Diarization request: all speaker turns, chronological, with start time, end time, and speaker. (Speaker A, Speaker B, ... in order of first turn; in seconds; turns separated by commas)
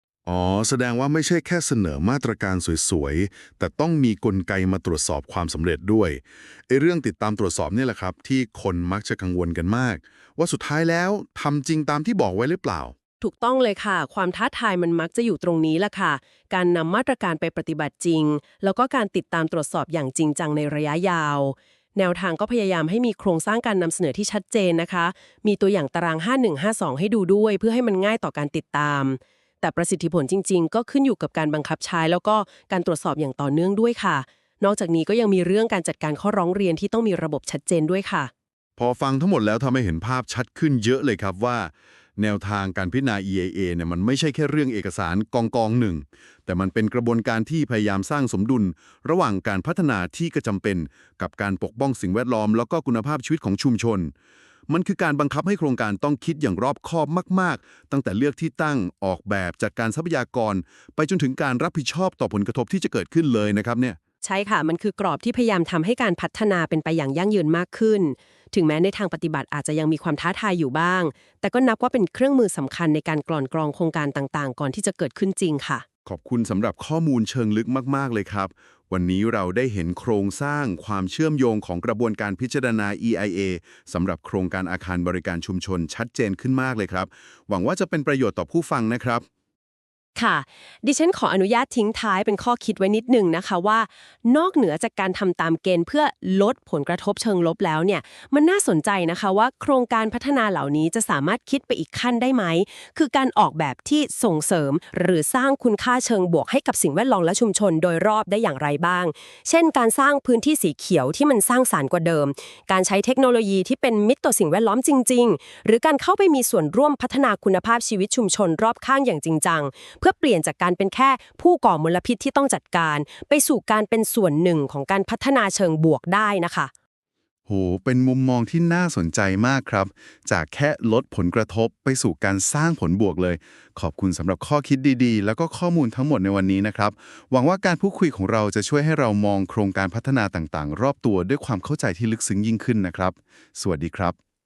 Speaker A: 0.2-12.9, Speaker B: 13.2-38.3, Speaker A: 38.8-54.1, Speaker A: 54.7-64.0, Speaker B: 64.2-75.8, Speaker A: 76.0-89.2, Speaker B: 90.2-126.7, Speaker A: 127.5-144.2